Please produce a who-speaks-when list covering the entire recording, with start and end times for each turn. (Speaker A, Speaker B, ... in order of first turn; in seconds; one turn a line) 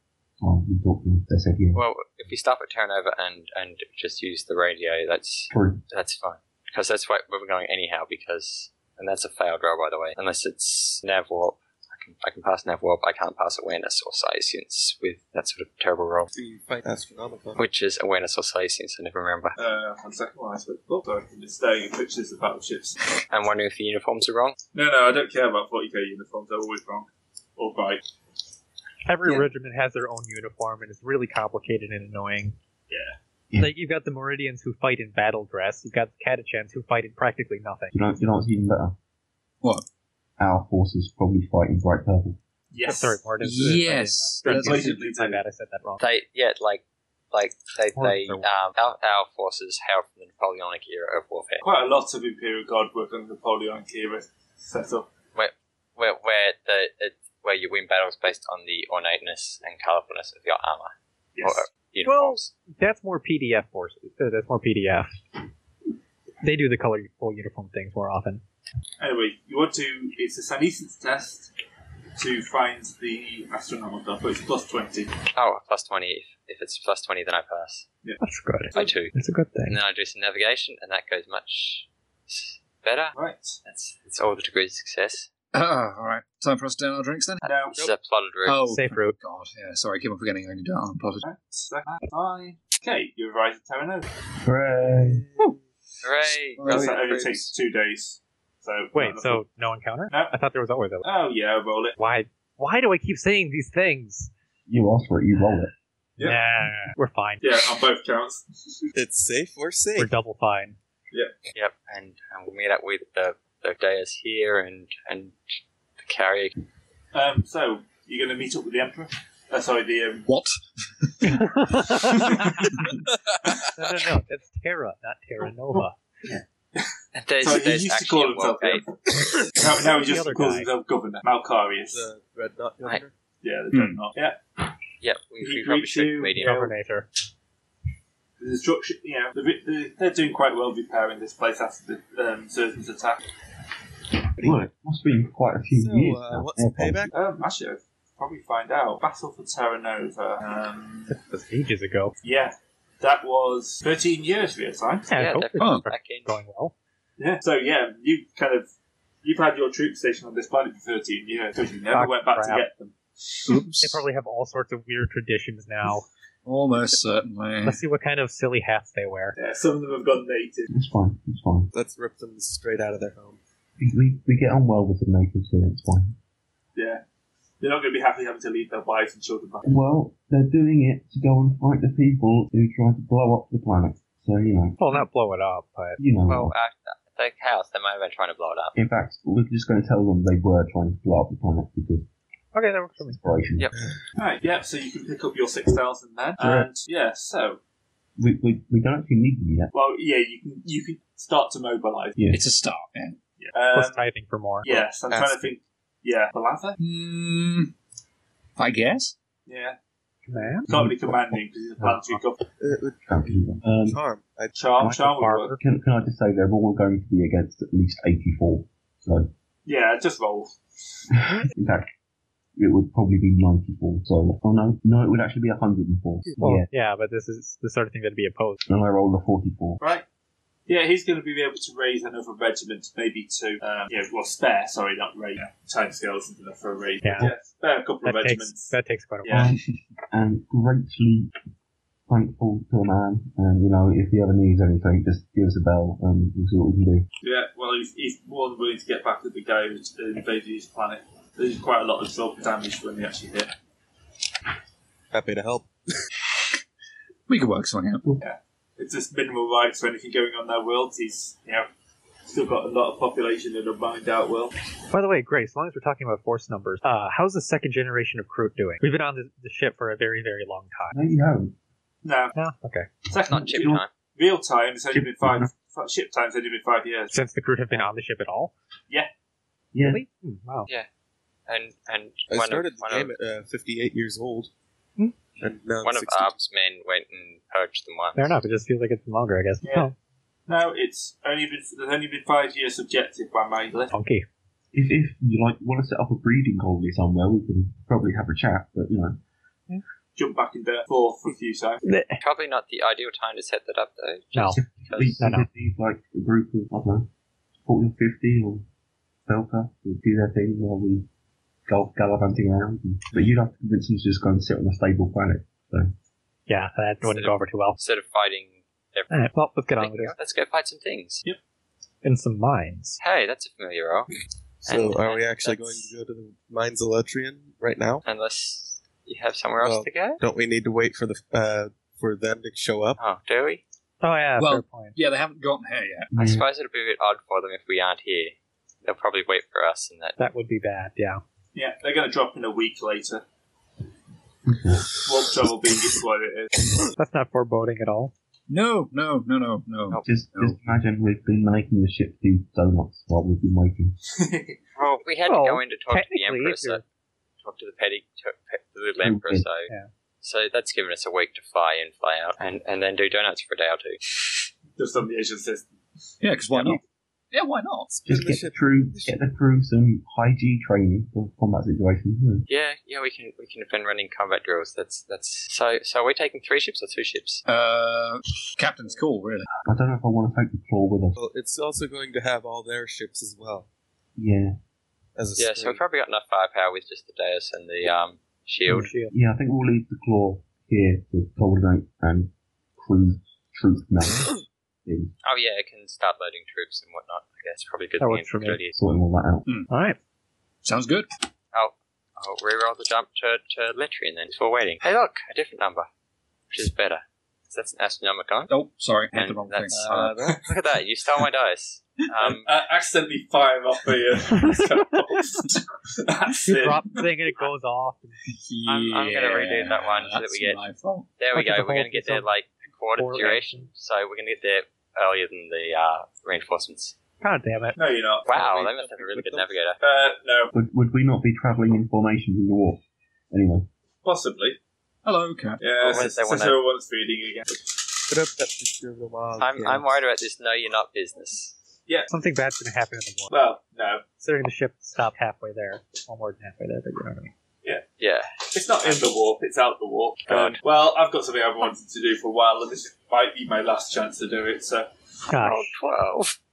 Speaker A: 0.4-1.8
Speaker B: 1.7-16.3
Speaker A: 5.5-5.8
Speaker C: 16.3-17.6
Speaker B: 17.6-19.6
Speaker D: 19.6-23.0
Speaker B: 23.3-24.6
Speaker D: 24.7-28.0
Speaker E: 29.1-32.6
Speaker D: 32.9-33.2
Speaker E: 33.6-37.9
Speaker A: 37.9-39.0
Speaker A: 40.4-42.4
Speaker D: 42.7-43.2
Speaker E: 42.8-46.0
Speaker F: 43.4-44.9
Speaker D: 44.4-45.4
Speaker B: 46.0-51.6
Speaker E: 48.0-48.5
Speaker D: 51.6-55.1
Speaker B: 55.4-62.5
Speaker D: 61.4-61.6
Speaker E: 62.0-65.1
Speaker E: 66.4-68.4
Speaker D: 69.0-71.5
Speaker D: 72.2-75.1
Speaker B: 75.3-77.8
Speaker E: 78.2-79.8
Speaker B: 78.8-79.1
Speaker B: 79.7-85.3
Speaker D: 83.2-83.6
Speaker F: 85.5-87.4
Speaker D: 87.4-87.8
Speaker B: 87.5-88.6
Speaker F: 88.5-91.3
Speaker E: 88.7-89.2
Speaker D: 91.2-94.1
Speaker A: 94.4-95.2
Speaker C: 94.8-95.5
Speaker B: 96.0-97.4
Speaker F: 96.5-97.0
Speaker D: 96.7-99.4
Speaker E: 99.0-101.0
Speaker D: 101.0-102.0
Speaker E: 102.0-104.3
Speaker A: 104.7-105.7
Speaker E: 106.2-107.4
Speaker D: 107.4-108.9
Speaker C: 109.0-110.1
Speaker E: 110.0-110.8
Speaker B: 111.5-115.4
Speaker B: 116.0-116.5
Speaker D: 117.1-120.3
Speaker F: 120.3-122.9
Speaker E: 121.2-122.7
Speaker E: 123.7-126.0
Speaker D: 126.8-132.1
Speaker B: 127.1-128.8
Speaker E: 129.9-130.7
Speaker C: 131.9-133.1
Speaker D: 133.4-134.4
Speaker F: 133.7-134.0
Speaker B: 135.0-136.7
Speaker D: 135.4-136.6
Speaker E: 136.4-137.1
Speaker D: 138.4-143.2
Speaker A: 144.4-147.1
Speaker C: 145.7-147.2
Speaker D: 147.1-151.2
Speaker E: 151.1-152.2
Speaker D: 152.2-155.1
Speaker E: 155.1-156.7
Speaker B: 155.1-156.3
Speaker F: 155.6-155.9
Speaker D: 157.2-158.7
Speaker D: 159.2-162.9
Speaker E: 161.9-162.6
Speaker F: 163.5-164.0
Speaker E: 163.8-166.1
Speaker F: 166.4-167.8
Speaker E: 167.6-169.3
Speaker D: 169.4-170.7
Speaker A: 170.7-171.7
Speaker C: 171.7-173.4
Speaker A: 173.8-176.2
Speaker D: 176.8-177.0
Speaker D: 177.6-179.7
Speaker A: 179.7-184.8
Speaker E: 184.8-186.0
Speaker A: 186.0-186.5
Speaker B: 186.3-188.8
Speaker A: 188.8-192.1
Speaker E: 192.5-193.2
Speaker A: 193.0-193.7
Speaker D: 194.2-197.6
Speaker A: 196.4-196.7
Speaker A: 198.2-199.7
Speaker D: 199.7-202.2
Speaker F: 202.3-203.2
Speaker D: 203.4-204.0
Speaker E: 203.7-204.8
Speaker D: 204.6-206.8
Speaker C: 205.1-205.5
Speaker F: 206.8-207.7
Speaker F: 208.6-209.1
Speaker D: 209.5-209.8
Speaker E: 210.3-210.7
Speaker D: 210.7-212.4
Speaker A: 210.7-211.2
Speaker A: 211.8-212.2
Speaker C: 212.6-214.6
Speaker A: 213.1-214.0
Speaker D: 214.6-215.5
Speaker E: 214.8-215.6
Speaker A: 215.6-219.3
Speaker D: 219.7-220.6
Speaker A: 221.3-221.9
Speaker A: 222.6-226.7
Speaker E: 226.4-228.6
Speaker A: 228.7-229.8
Speaker D: 229.8-230.1
Speaker D: 230.7-239.5
Speaker E: 237.0-237.3
Speaker E: 238.0-239.5
Speaker A: 239.3-241.3
Speaker A: 242.1-247.1
Speaker D: 247.2-253.5
Speaker C: 255.1-256.0
Speaker F: 257.3-258.1
Speaker D: 258.2-261.7
Speaker D: 262.2-264.6
Speaker E: 264.9-271.0
Speaker A: 270.9-271.6
Speaker D: 272.0-272.4
Speaker E: 272.4-272.9
Speaker D: 273.1-277.1
Speaker A: 273.3-273.8
Speaker B: 273.3-273.9
Speaker A: 274.9-275.5
Speaker E: 277.1-278.5
Speaker A: 279.7-280.0
Speaker E: 279.9-280.7
Speaker B: 281.5-283.1
Speaker C: 282.3-284.5
Speaker C: 285.4-286.3
Speaker B: 285.8-288.4
Speaker E: 288.2-289.9
Speaker D: 289.6-289.9
Speaker D: 290.5-293.9
Speaker E: 293.9-294.3
Speaker A: 294.7-299.2
Speaker D: 300.2-301.8
Speaker E: 301.8-302.2
Speaker B: 302.2-305.2
Speaker E: 304.3-304.6
Speaker A: 304.6-307.1
Speaker E: 305.2-305.5
Speaker A: 307.6-308.7
Speaker A: 309.3-311.1
Speaker A: 311.7-315.9
Speaker E: 316.5-317.8
Speaker B: 317.0-319.2
Speaker E: 319.1-320.1
Speaker B: 319.8-321.2
Speaker E: 322.0-323.0
Speaker B: 323.0-324.1
Speaker C: 324.6-328.0
Speaker B: 324.7-325.9
Speaker B: 328.1-330.2
Speaker C: 329.6-333.0
Speaker B: 333.0-333.6
Speaker E: 334.0-335.0
Speaker F: 334.4-336.1
Speaker A: 336.1-336.5
Speaker B: 336.1-340.2
Speaker E: 340.2-341.2
Speaker D: 341.5-343.2
Speaker A: 344.5-344.9
Speaker D: 344.9-346.6
Speaker E: 347.0-348.1
Speaker F: 348.5-350.6
Speaker A: 350.1-354.0
Speaker D: 354.1-354.6
Speaker B: 354.8-356.8
Speaker E: 355.3-356.8
Speaker B: 357.4-359.7
Speaker A: 359.0-359.5
Speaker B: 360.2-364.0
Speaker D: 364.8-365.8
Speaker F: 366.2-366.8
Speaker A: 366.5-366.8
Speaker F: 367.3-367.9
Speaker C: 367.9-369.2
Speaker A: 368.1-372.5
Speaker B: 372.5-377.4
Speaker F: 377.5-379.5
Speaker A: 379.7-381.2
Speaker C: 381.2-383.7
Speaker A: 384.2-384.6
Speaker C: 385.2-385.8
Speaker B: 385.4-388.9
Speaker E: 388.7-389.1
Speaker A: 388.9-394.3
Speaker A: 394.9-395.1
Speaker B: 395.2-398.8
Speaker E: 398.0-398.6
Speaker A: 398.7-399.5
Speaker E: 399.7-400.0
Speaker F: 400.6-401.1
Speaker B: 401.5-405.9
Speaker B: 406.5-408.5
Speaker F: 408.5-410.1
Speaker B: 409.1-412.5
Speaker C: 409.7-410.4
Speaker D: 412.2-416.8
Speaker E: 416.5-418.2
Speaker F: 418.3-421.1
Speaker B: 418.7-420.6
Speaker B: 421.2-426.9
Speaker E: 421.3-422.3
Speaker E: 423.0-423.7
Speaker E: 427.2-427.8
Speaker D: 427.8-428.4
Speaker B: 428.3-429.8
Speaker C: 428.3-429.6
Speaker D: 429.8-430.5
Speaker A: 430.5-433.7
Speaker D: 434.0-434.6
Speaker F: 435.1-435.6
Speaker D: 435.6-437.7
Speaker B: 435.8-436.6
Speaker C: 438.1-439.9
Speaker B: 439.4-441.6
Speaker E: 442.1-443.4
Speaker D: 443.3-444.0
Speaker E: 444.2-447.3
Speaker B: 448.0-449.1
Speaker D: 448.5-454.9
Speaker B: 450.3-450.6
Speaker E: 455.3-455.7
Speaker B: 455.4-456.4